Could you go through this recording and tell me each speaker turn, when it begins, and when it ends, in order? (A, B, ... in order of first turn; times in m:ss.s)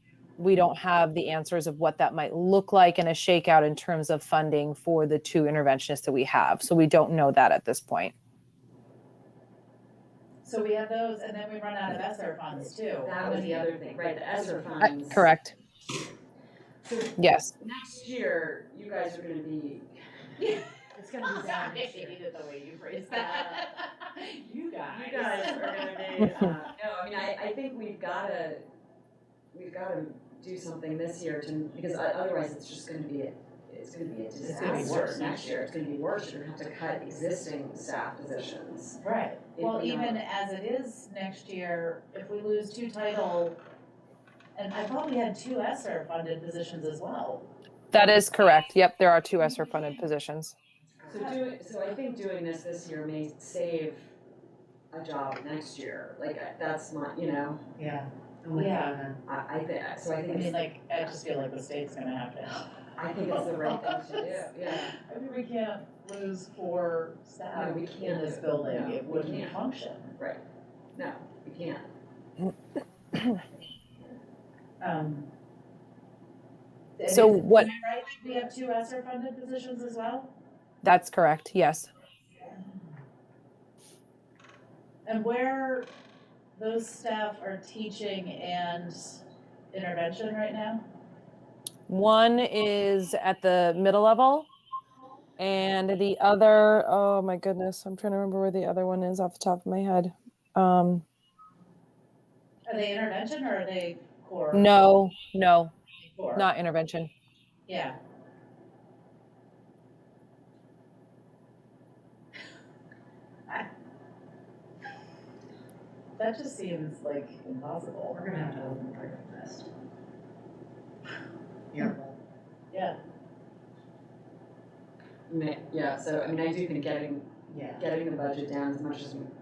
0:00.4-0:08.1 A
0:10.4-0:13.7 B
0:13.0-0:15.3 C
0:14.8-0:15.6 A
0:16.8-0:19.9 C
0:17.2-0:17.5 A
0:20.4-0:26.6 B
0:21.0-0:21.8 D
0:23.1-0:23.6 C
0:24.9-0:28.6 C
0:29.5-0:39.0 C
0:34.4-0:35.6 B
0:39.0-0:43.6 B
0:39.5-0:40.2 C
0:44.5-0:47.4 B
0:47.9-0:50.5 A
0:51.0-0:54.1 C
0:51.1-0:51.4 B
0:54.9-0:57.6 C
0:57.8-0:59.2 D
0:58.5-0:59.0 B
0:59.2-1:00.6 C
1:00.3-1:02.7 B
1:03.0-1:05.0 C
1:04.0-1:10.1 B
1:07.5-1:09.6 C
1:10.9-1:11.9 C
1:14.8-1:15.3 B
1:17.0-1:20.3 B
1:17.1-1:17.7 A
1:20.8-1:21.9 A
1:25.0-1:25.9 B
1:26.5-1:29.2 B
1:29.7-1:30.8 B
1:31.9-1:34.5 A
1:35.4-1:41.0 A
1:42.7-1:44.7 B
1:44.5-1:45.7 A
1:46.1-1:46.4 B
1:46.3-1:47.1 A
1:47.7-1:47.9 B
1:56.2-1:58.2 B
1:58.1-1:59.7 D
2:01.7-2:02.1 D
2:05.3-2:09.3 C
2:07.5-2:07.8 D